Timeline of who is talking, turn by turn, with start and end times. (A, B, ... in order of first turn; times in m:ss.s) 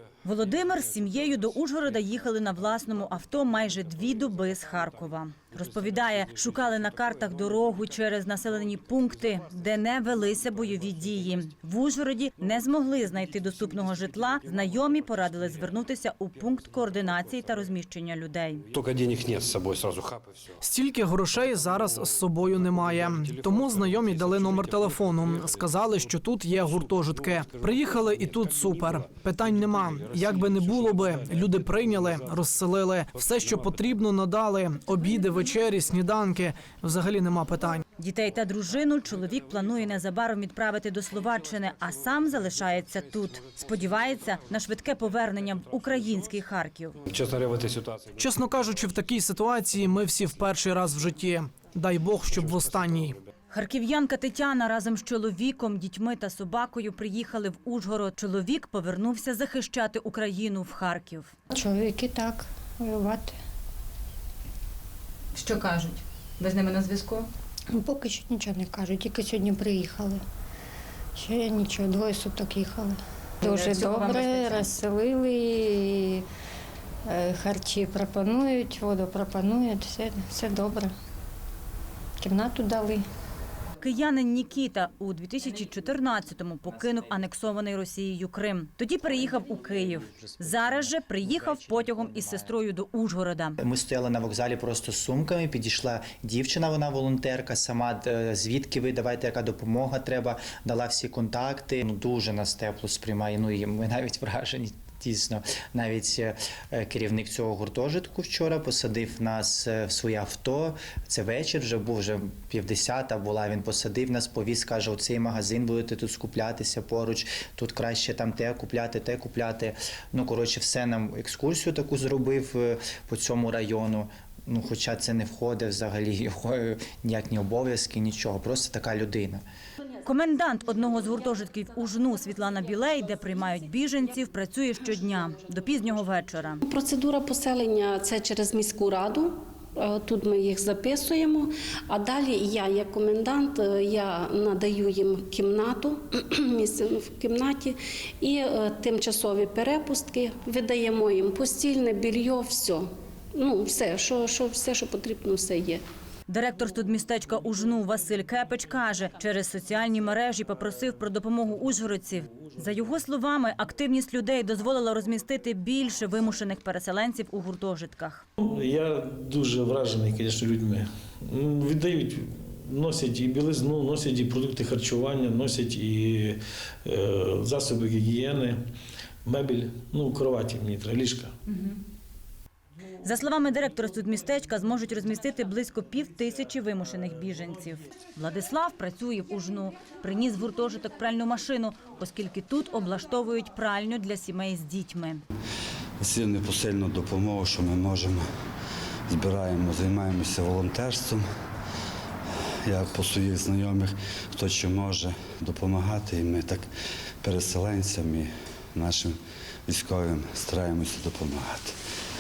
0:00.2-0:18.6 A
0:18.7-0:20.2 B
0:20.6-0:37.8 C
0:38.0-0:47.0 A
0:47.1-0:48.0 B
0:48.2-0:53.2 C
0:53.5-1:01.3 A
1:01.5-1:03.3 D
1:05.3-1:07.2 A
1:07.8-1:10.2 D
1:11.2-1:16.2 D
1:13.4-1:14.7 A
1:17.1-1:20.9 D
1:22.2-1:23.0 D
1:23.8-1:33.6 A
1:29.4-1:32.5 E
1:33.6-2:09.4 E
2:10.0-2:16.6 A
2:16.6-2:35.8 F
2:36.3-2:48.2 A
2:48.4-2:58.6 G
2:59.2-3:01.3 G
3:01.5-3:01.7 A
3:03.0-3:15.2 A
3:16.0-3:18.2 H
3:19.1-3:21.2 H
3:22.7-3:26.6 H
3:27.2-3:31.8 H